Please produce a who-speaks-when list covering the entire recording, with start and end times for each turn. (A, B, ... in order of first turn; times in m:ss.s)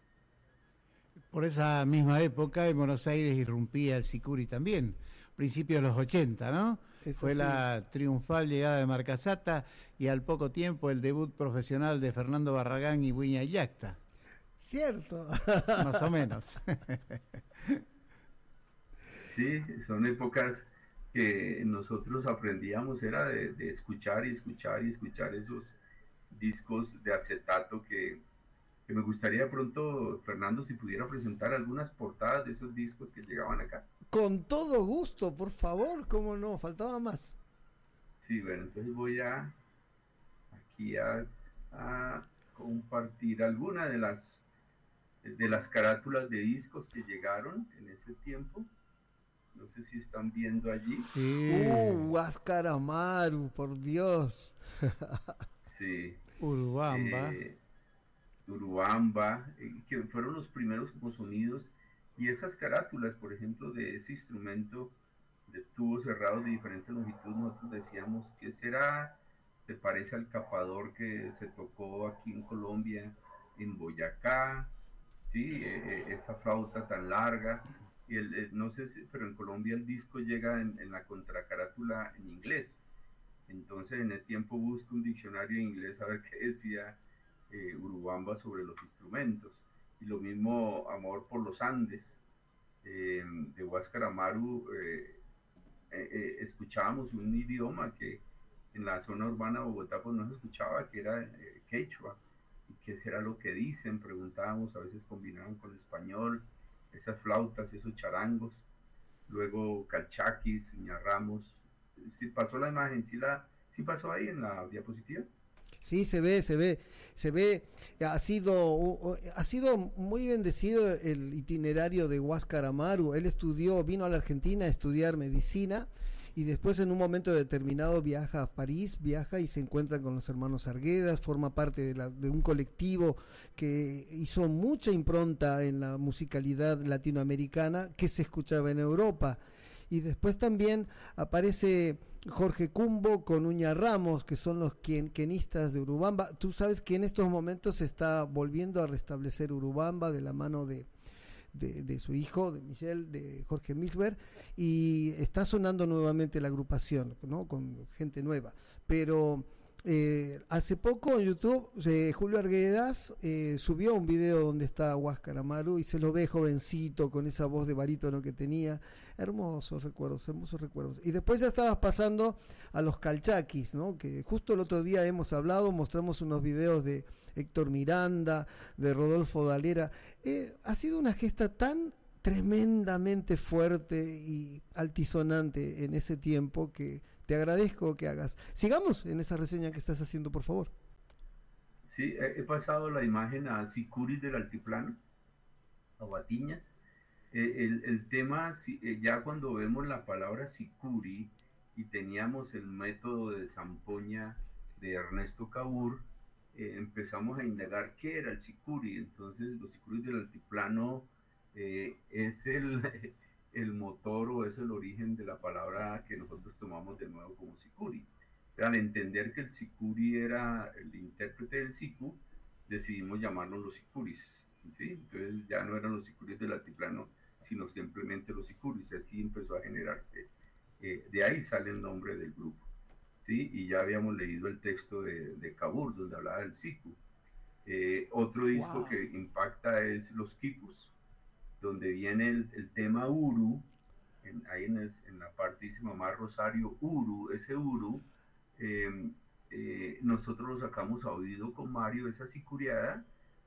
0:01.3-0:14.0 A
0:07.0-0:07.6 B
0:14.6-0:16.0 B
0:15.8-0:17.8 A
0:19.3-0:25.8 C
0:26.3-0:28.2 C
0:28.9-0:33.8 C
0:34.1-0:37.4 B
0:38.2-0:39.6 C
0:40.5-0:44.4 C
0:45.2-0:48.7 C
0:49.5-0:51.1 C
0:51.1-0:52.1 A
0:51.5-0:55.2 B
0:55.7-0:56.2 C
0:56.4-0:57.4 A
0:56.9-0:57.6 C
0:58.5-1:04.9 C
1:05.5-1:14.7 C
1:15.3-1:22.8 C
1:23.5-1:27.0 C
1:27.5-1:32.2 C
1:32.8-1:35.2 C
1:35.9-1:38.2 C
1:38.7-1:48.7 C
1:49.3-1:55.3 C
1:55.8-2:30.9 B
2:31.5-3:10.7 B
3:11.8-3:15.0 C
3:16.0-3:16.7 C
3:17.3-3:50.3 C
3:50.8-3:52.7 C
3:53.2-3:57.0 C
3:57.6-4:00.9 C
4:01.6-4:03.6 C
4:04.2-4:08.0 C
4:08.6-4:13.0 C